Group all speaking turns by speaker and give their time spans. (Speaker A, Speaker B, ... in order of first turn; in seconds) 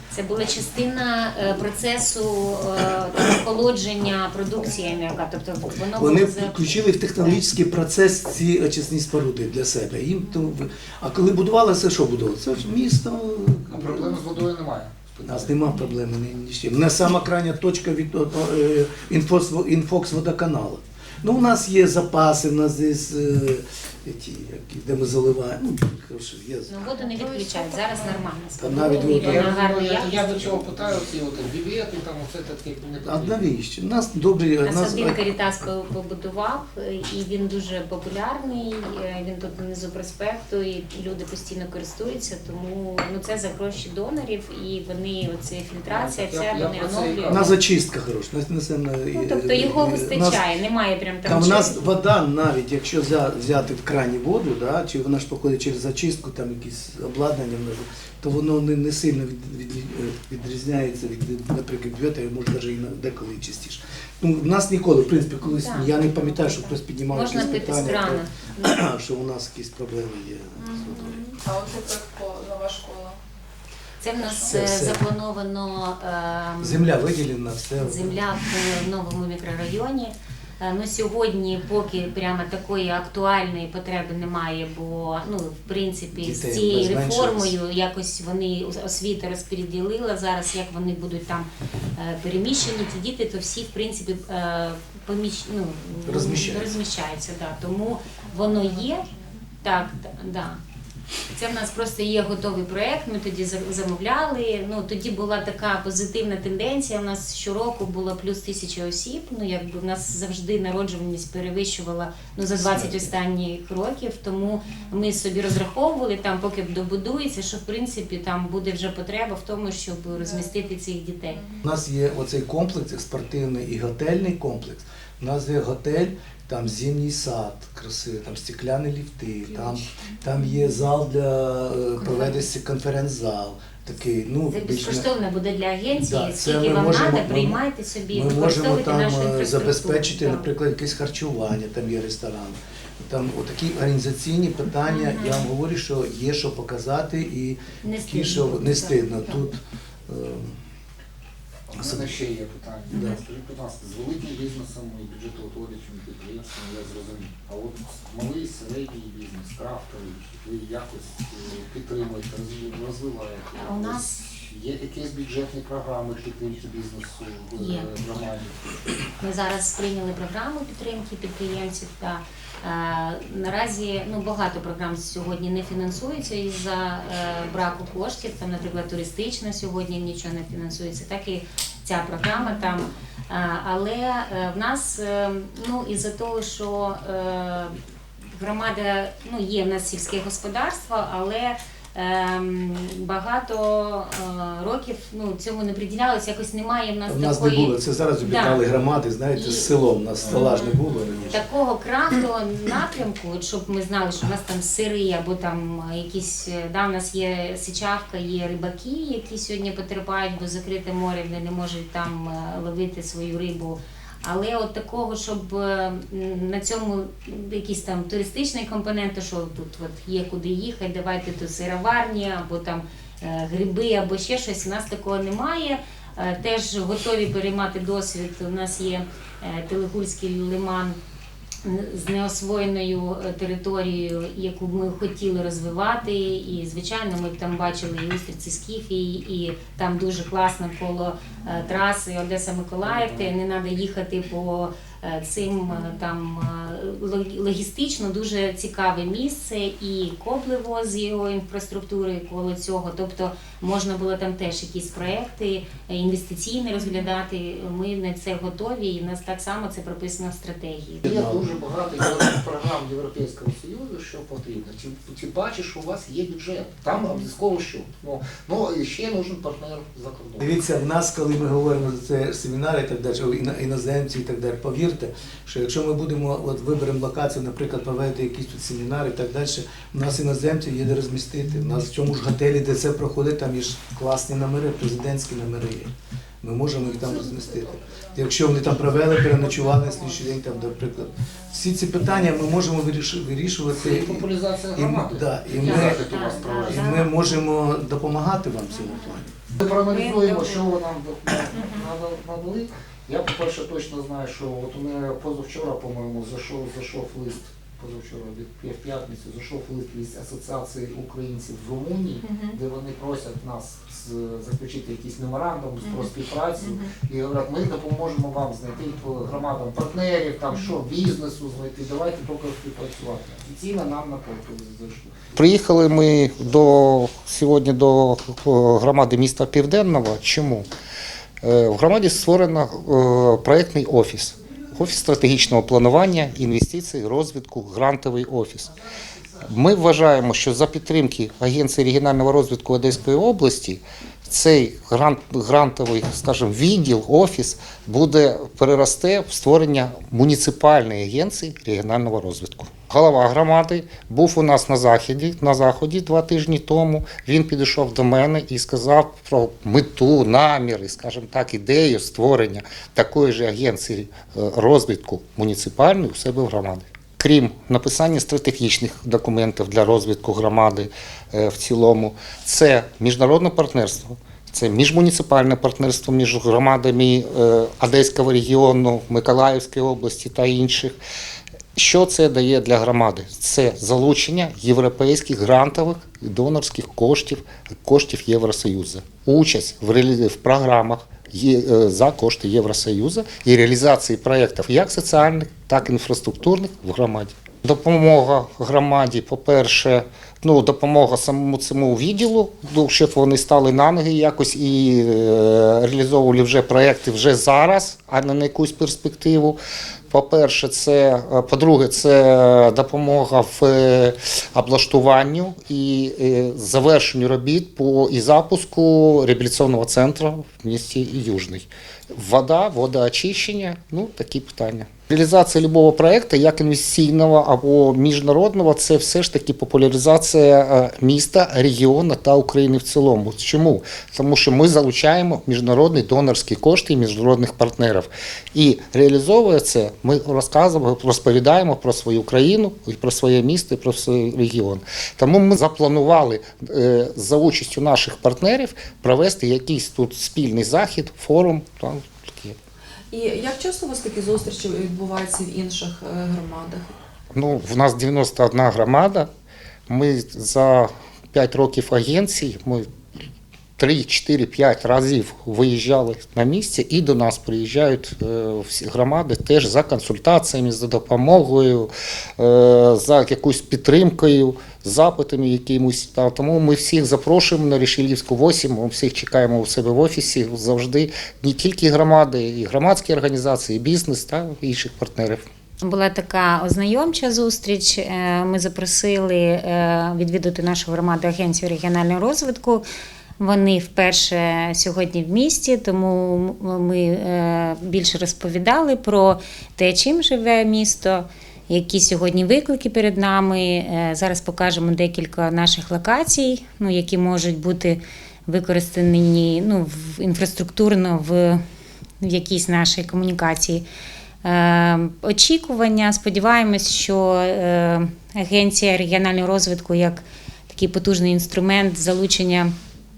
Speaker A: 0.1-7.4, 26.7-30.6, 34.6-47.5, 49.1-52.0, 65.4-68.8, 74.0-76.8, 77.8-99.0, 99.6-100.6, 101.3-121.4, 134.5-140.5, 147.8-149.5, 163.5-164.1, 167.6-167.9, 169.2-187.8, 188.3-198.6, 199.3-199.7, 200.3-200.6, 201.3-231.0, 231.6-261.0, 295.6-297.4, 485.8-492.8, 493.4-511.6, 512.2-513.8, 514.4-522.7
Speaker B: 5.9-14.2, 15.2-26.9, 28.6-29.5, 33.0-35.2, 47.2-50.4, 51.2-71.2, 74.4-75.0, 76.6-78.2, 86.1-87.5, 96.0-96.8, 112.6-113.1, 121.6-135.1, 136.1-137.6, 138.1-150.6, 151.8-152.2, 152.9-153.2, 197.1-201.4, 261.0-261.5, 270.4-285.9, 286.4-299.3
Speaker C: 13.7-15.5, 29.0-33.5, 45.9-47.4, 151.7-168.8, 242.8-243.3, 261.0-270.5, 293.7-297.0, 299.6-330.7, 331.4-338.7, 339.4-380.9, 381.8-409.6, 410.1-452.6, 457.3-459.3, 459.9-462.9, 463.8-485.4
Speaker D: 27.0-27.9, 312.2-312.6, 315.8-316.1, 316.6-316.9, 453.1-456.9
Speaker E: 70.7-73.2, 98.3-99.2, 114.6-114.9, 120.2-120.5, 286.8-288.2, 289.3-290.7